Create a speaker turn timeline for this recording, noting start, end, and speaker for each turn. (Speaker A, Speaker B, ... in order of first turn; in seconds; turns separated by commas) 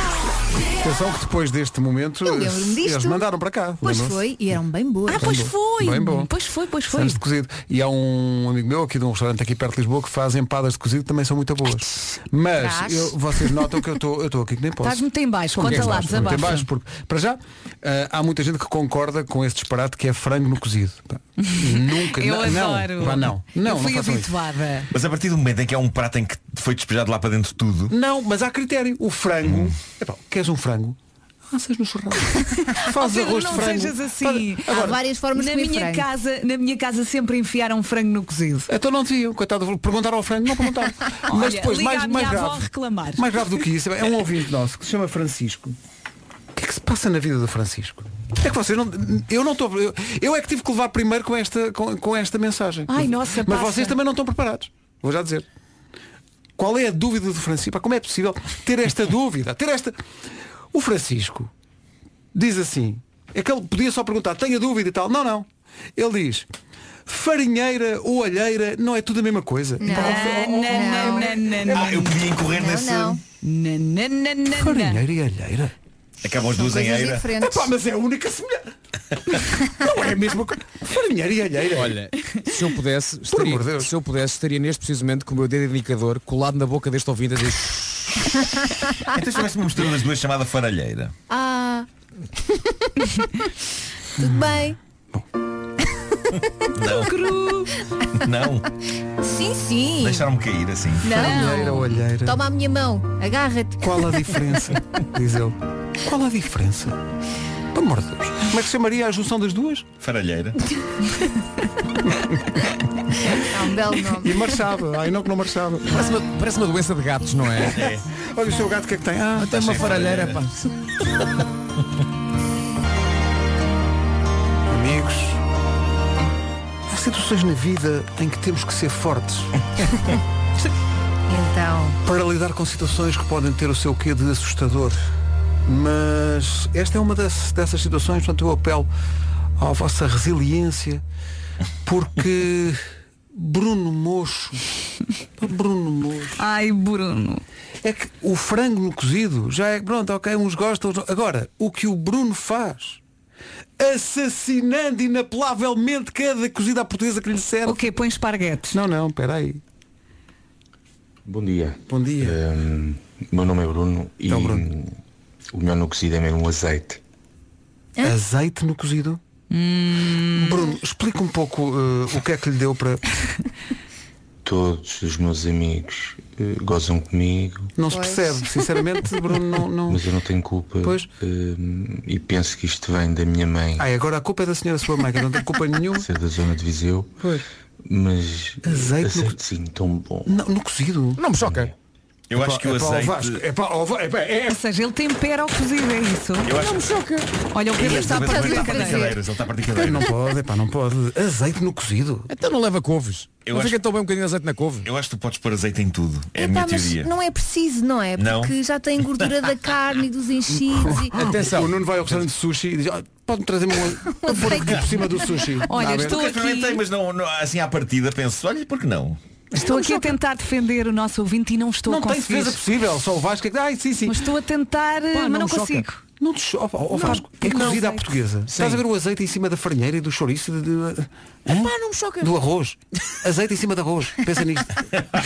Speaker A: 0.8-4.2, Speaker B: 2.2-3.2, Speaker B: 3.8-5.3, Speaker C: 5.1-7.2, Speaker A: 5.1-6.3, Speaker A: 6.9-24.3, Speaker B: 12.6-13.2, Speaker C: 14.8-16.6, Speaker D: 15.6-16.4, Speaker C: 21.4-24.9, Speaker E: 24.9-27.9, Speaker A: 27.9-31.0, Speaker E: 29.4-29.7, Speaker A: 31.5-35.0, Speaker C: 32.8-38.7, Speaker B: 34.7-36.0, Speaker A: 38.7-45.8, Speaker C: 41.3-43.4, Speaker A: 46.5-55.5, Speaker C: 52.9-54.0, Speaker A: 56.6-59.9, Speaker A: 60.7-61.5, Speaker A: 62.3-66.5, Speaker A: 67.1-71.7, Speaker B: 69.8-71.3, Speaker C: 69.8-72.2, Speaker E: 71.7-73.2, Speaker B: 72.4-73.2, Speaker C: 73.4-75.0, Speaker A: 74.6-75.7, Speaker E: 76.2-77.2, Speaker B: 76.4-77.7, Speaker A: 77.4-78.7, Speaker A: 79.6-82.0, Speaker D: 81.7-88.5, Speaker A: 83.3-83.9, Speaker E: 89.0-91.1, Speaker B: 91.3-91.9, Speaker B: 92.5-92.9, Speaker B: 94.2-94.8, Speaker E: 96.7-97.1, Speaker C: 96.8-97.7, Speaker E: 98.1-98.7, Speaker B: 99.2-100.3, Speaker E: 100.0-101.0, Speaker B: 101.0-104.4, Speaker A: 101.0-102.4, Speaker A: 103.8-107.0, Speaker A: 107.7-109.9, Speaker E: 110.0-110.6, Speaker A: 112.0-112.7, Speaker B: 113.3-114.6, Speaker A: 114.1-116.0, Speaker D: 115.9-117.8, Speaker E: 117.7-118.0, Speaker A: 117.7-120.3, Speaker D: 119.4-120.5, Speaker E: 119.5-120.5, Speaker A: 124.7-125.4, Speaker A: 126.9-129.5, Speaker B: 131.3-132.0, Speaker A: 132.0-135.0, Speaker A: 135.7-138.9, Speaker A: 139.6-141.0, Speaker A: 141.8-142.8, Speaker A: 143.3-144.6, Speaker A: 145.4-146.4, Speaker C: 146.4-147.4, Speaker A: 147.8-153.0, Speaker A: 153.8-157.8, Speaker C: 157.6-158.8, Speaker A: 158.7-159.6, Speaker F: 161.2-164.9, Speaker A: 161.9-162.4, Speaker A: 164.3-164.7, Speaker F: 165.5-167.0, Speaker A: 168.0-169.2, Speaker C: 169.5-170.7, Speaker A: 170.3-173.0, Speaker F: 174.4-177.8, Speaker A: 177.8-180.0, Speaker B: 177.9-178.8, Speaker F: 179.9-183.9, Speaker A: 180.8-181.1, Speaker A: 183.8-186.1, Speaker F: 185.9-187.1, Speaker F: 187.8-190.4, Speaker A: 188.6-189.4, Speaker A: 190.2-191.2, Speaker D: 191.2-191.7, Speaker F: 191.4-191.7, Speaker E: 192.3-193.4, Speaker A: 192.3-194.6, Speaker C: 194.5-196.5, Speaker E: 196.4-197.0, Speaker D: 196.5-197.3, Speaker C: 197.5-199.1, Speaker E: 197.7-200.1, Speaker B: 197.9-199.2, Speaker A: 199.8-202.3, Speaker D: 202.3-204.9, Speaker E: 203.5-203.8, Speaker E: 204.8-207.1, Speaker B: 206.3-211.2, Speaker E: 208.2-208.5, Speaker A: 210.8-216.2, Speaker D: 211.1-211.7, Speaker B: 214.2-215.4, Speaker C: 215.7-216.8, Speaker E: 215.8-219.2, Speaker A: 219.5-220.0, Speaker C: 219.5-222.6, Speaker A: 221.9-224.2, Speaker C: 224.1-226.0, Speaker D: 225.1-225.8, Speaker A: 226.2-234.9, Speaker C: 226.9-228.0, Speaker D: 227.5-227.8, Speaker D: 228.5-228.8, Speaker D: 231.6-232.3